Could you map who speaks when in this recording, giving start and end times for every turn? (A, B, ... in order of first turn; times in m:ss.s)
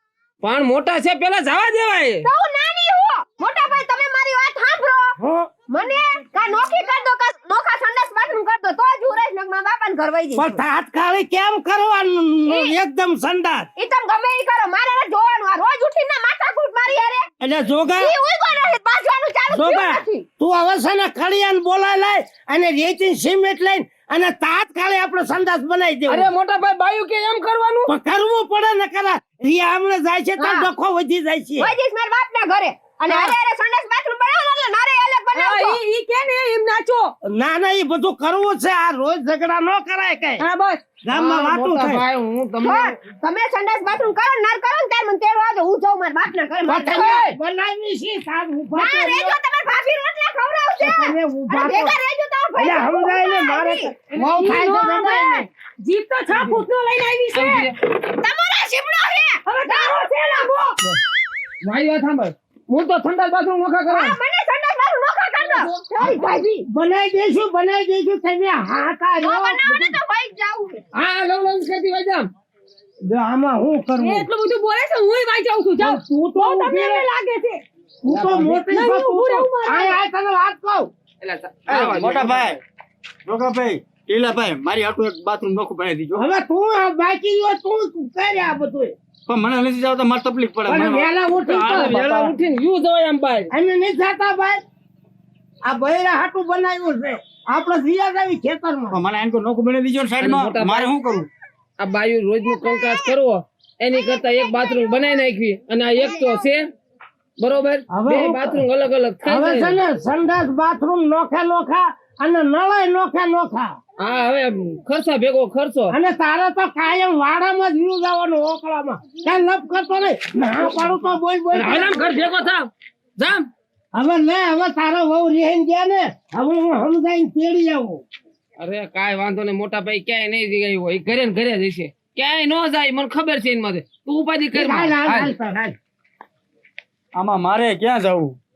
0:00.4-0:02.2 A
0:02.2-0:05.2 B
0:05.2-0:05.5 C
0:05.7-0:10.6 B
0:10.4-0:13.7 C
0:12.5-0:12.8 B
0:13.8-0:17.3 B
0:17.4-0:18.1 C
0:18.0-0:20.2 B
0:19.5-0:26.3 C
0:26.1-0:27.9 A
0:27.9-0:31.7 C
0:30.4-0:30.7 B
0:31.6-0:35.8 B
0:33.1-0:33.3 D
0:35.3-0:37.1 D
0:37.2-0:40.4 C
0:40.4-0:40.8 D
0:41.0-0:42.0 C
0:41.1-0:42.9 A
0:42.6-0:47.2 B
0:46.6-0:49.4 C
0:46.9-0:47.3 D
0:48.7-0:53.9 B
0:50.8-0:52.0 C
0:52.6-0:55.5 C
0:54.2-0:57.7 D
0:56.3-0:56.6 A
0:57.3-0:57.7 A
0:57.8-1:00.0 B
0:59.4-1:00.8 D
1:01.6-1:04.1 A
1:03.9-1:06.7 B
1:05.4-1:05.8 A
1:06.0-1:10.0 C
1:09.2-1:10.8 B
1:10.9-1:12.3 A
1:13.0-1:14.3 C
1:14.0-1:17.6 D
1:15.8-1:17.1 C
1:18.0-1:20.9 C
1:18.1-1:18.6 A
1:18.7-1:20.0 D
1:21.2-1:22.6 A
1:21.7-1:22.6 E
1:23.2-1:26.2 E
1:26.1-1:28.9 C
1:29.3-1:31.1 E
1:30.7-1:32.3 C
1:31.3-1:33.5 A
1:33.5-1:34.6 C
1:35.6-1:39.0 C
1:38.9-1:41.3 E
1:40.2-1:40.9 A
1:41.8-1:46.7 A
1:47.4-1:49.8 A
1:47.9-1:48.6 C
1:49.2-1:53.8 C
1:54.0-1:56.0 A
1:55.9-2:02.0 C
2:01.5-2:03.5 A
2:03.9-2:08.0 C
2:08.6-2:15.3 A
2:14.5-2:15.8 C
2:17.1-2:18.4 E